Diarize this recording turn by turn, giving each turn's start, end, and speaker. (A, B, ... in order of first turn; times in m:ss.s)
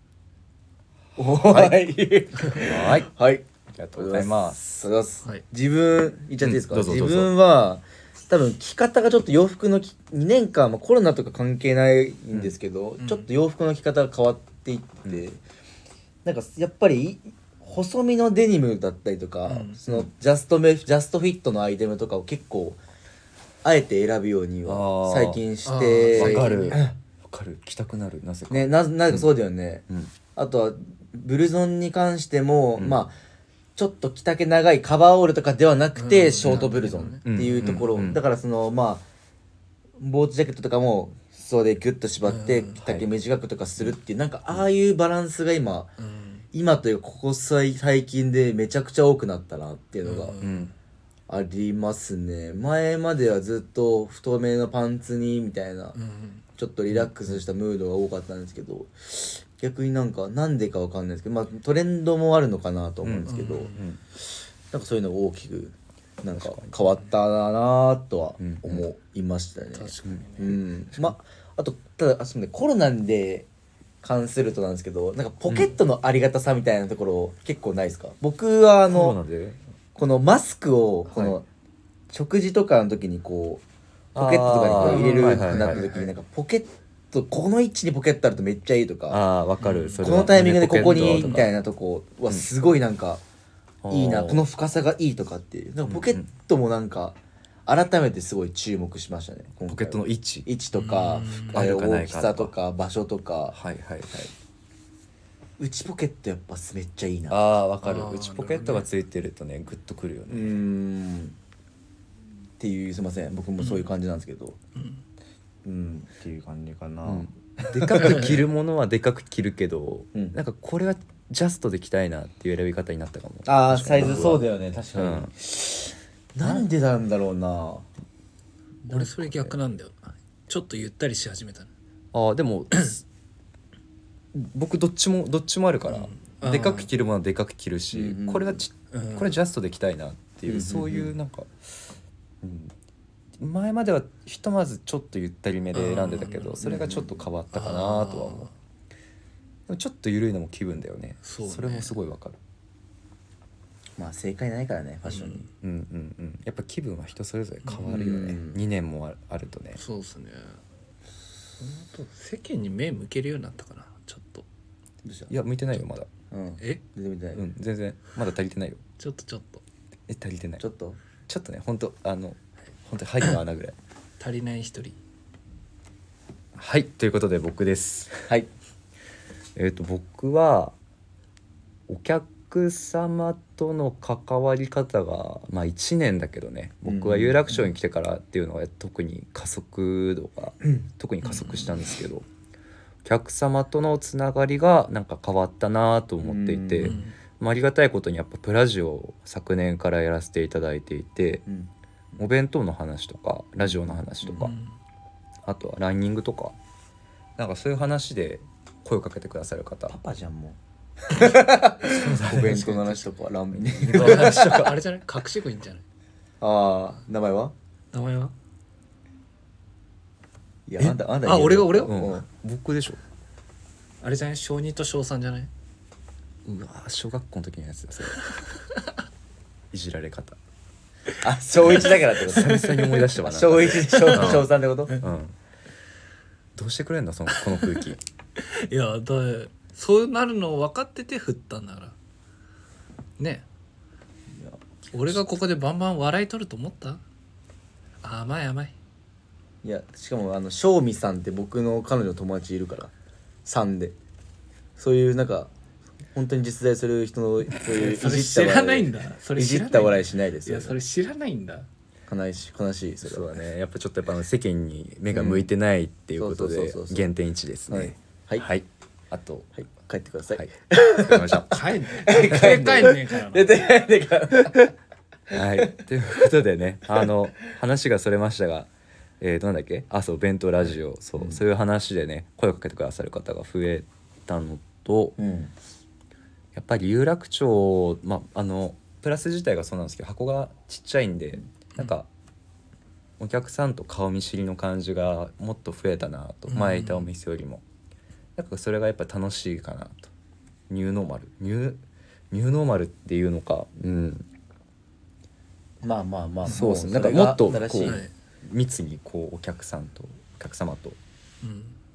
0:01.2-0:15.4 A
0:01.2-0:01.8 B
0:02.5-0:03.1 B
0:03.7-0:04.8 B
0:06.4-0:07.3 B
0:13.0-0:13.3 C
0:16.2-0:22.8 A
0:19.5-0:19.8 C
0:23.6-0:26.9 A
0:24.6-0:25.4 B
0:25.6-0:26.8 C
0:26.1-0:29.3 B
0:28.5-0:33.2 A
0:33.8-0:39.0 A
0:36.0-0:37.9 C
0:37.2-0:38.2 B
0:40.0-0:45.9 A
0:42.2-0:42.8 C
0:46.0-0:46.4 C
0:46.5-0:50.4 A
0:50.0-0:50.7 C
0:50.4-0:50.7 B
0:51.3-0:56.0 A
0:56.0-0:56.4 C
0:56.6-1:03.7 A
0:56.9-0:57.4 B
1:03.0-1:04.0 B
1:03.3-1:03.9 C
1:04.7-1:13.5 A
1:06.3-1:06.7 B
1:08.4-1:08.8 B
1:09.7-1:10.6 C
1:14.0-1:19.2 A
1:18.9-1:19.6 B
1:19.9-1:21.4 A
1:22.1-1:23.6 A
1:24.1-1:25.9 B
1:24.1-1:29.2 A
1:24.8-1:26.1 C
1:29.1-1:31.5 B
1:29.6-1:30.0 C
1:30.0-1:33.2 A
1:30.8-1:31.4 C
1:33.8-1:34.4 B
1:33.9-1:43.6 A
1:35.8-1:36.3 B
1:39.7-1:40.5 B
1:40.8-1:41.6 C
1:41.5-1:42.5 B
1:43.5-1:44.3 B
1:45.6-1:47.4 A
1:47.3-1:50.6 B
1:47.8-1:48.9 C
1:50.3-1:51.4 A
1:52.6-1:54.6 A
1:53.6-1:53.9 C
1:54.7-1:55.0 C
1:55.6-1:58.3 A
1:57.0-2:05.3 B
2:03.4-2:07.9 A
2:08.9-2:11.7 C
2:12.1-2:13.0 B
2:14.3-2:21.5 B
2:15.9-2:16.9 C
2:17.9-2:18.6 A
2:18.9-2:19.3 C
2:20.5-2:21.1 A
2:22.4-2:22.7 B
2:23.4-2:28.5 B
2:25.7-2:26.6 C
2:26.6-2:27.2 A
2:27.5-2:28.5 C
2:29.7-2:32.4 B
2:31.2-2:31.9 C
2:34.0-2:35.4 A
2:35.0-2:35.4 C
2:35.6-2:39.8 B
2:37.8-2:38.6 A
2:39.8-2:40.6 C
2:41.6-2:44.4 C
2:45.0-2:45.3 A
2:45.3-2:46.1 B
2:46.3-2:47.5 A
2:47.3-2:48.8 B
2:49.0-2:49.6 C
2:50.1-2:50.6 B
2:50.6-2:51.0 A
2:51.3-2:53.8 B
2:54.2-2:55.0 C
2:56.6-2:58.2 B
2:59.6-3:00.7 B
3:01.9-3:12.2 B
3:06.8-3:07.6 A
3:11.3-3:11.7 C
3:13.0-3:21.4 B
3:16.2-3:17.0 A
3:16.8-3:17.1 C
3:21.4-3:22.2 A
3:22.2-3:24.6 B
3:23.7-3:24.5 A
3:24.4-3:24.7 C
3:25.4-3:26.6 B
3:27.4-3:30.0 B
3:29.9-3:34.6 A
3:31.9-3:33.0 B
3:33.5-3:34.8 B
3:33.9-3:35.8 C
3:36.4-3:37.5 A
3:37.9-3:38.3 C
3:40.7-3:42.2 A
3:41.2-3:42.0 C
3:41.8-3:43.0 B
3:44.0-3:45.5 C
3:46.4-3:48.2 B
3:49.7-3:50.4 B
3:51.2-3:55.0 A
3:51.6-3:55.3 B
3:52.4-3:52.9 C
3:53.8-3:54.4 C
3:56.6-3:58.0 B
3:57.3-3:57.8 C
3:58.4-4:01.9 C
4:03.2-4:03.4 C
4:04.3-4:04.6 A
4:04.9-4:07.0 C
4:08.0-4:08.7 C
4:09.6-4:12.9 A
4:13.4-4:13.9 A
4:14.8-4:15.5 A
4:16.1-4:20.8 A
4:17.6-4:21.7 C
4:22.1-4:23.3 A
4:23.0-4:29.5 B
4:25.1-4:25.5 A
4:26.2-4:27.1 A
4:27.7-4:28.5 A
4:29.6-4:34.7 A
4:30.3-4:31.6 B
4:31.5-4:33.6 C
4:35.3-4:35.7 A
4:35.3-4:38.7 B
4:39.2-4:45.2 B
4:45.2-4:45.5 A
4:46.5-4:52.1 B
4:53.2-4:57.6 B
4:56.5-4:57.1 C
4:58.4-5:00.1 B
5:00.7-5:04.3 B
5:05.8-5:08.0 A
5:06.4-5:11.0 B
5:07.8-5:08.1 C
5:11.4-5:11.8 C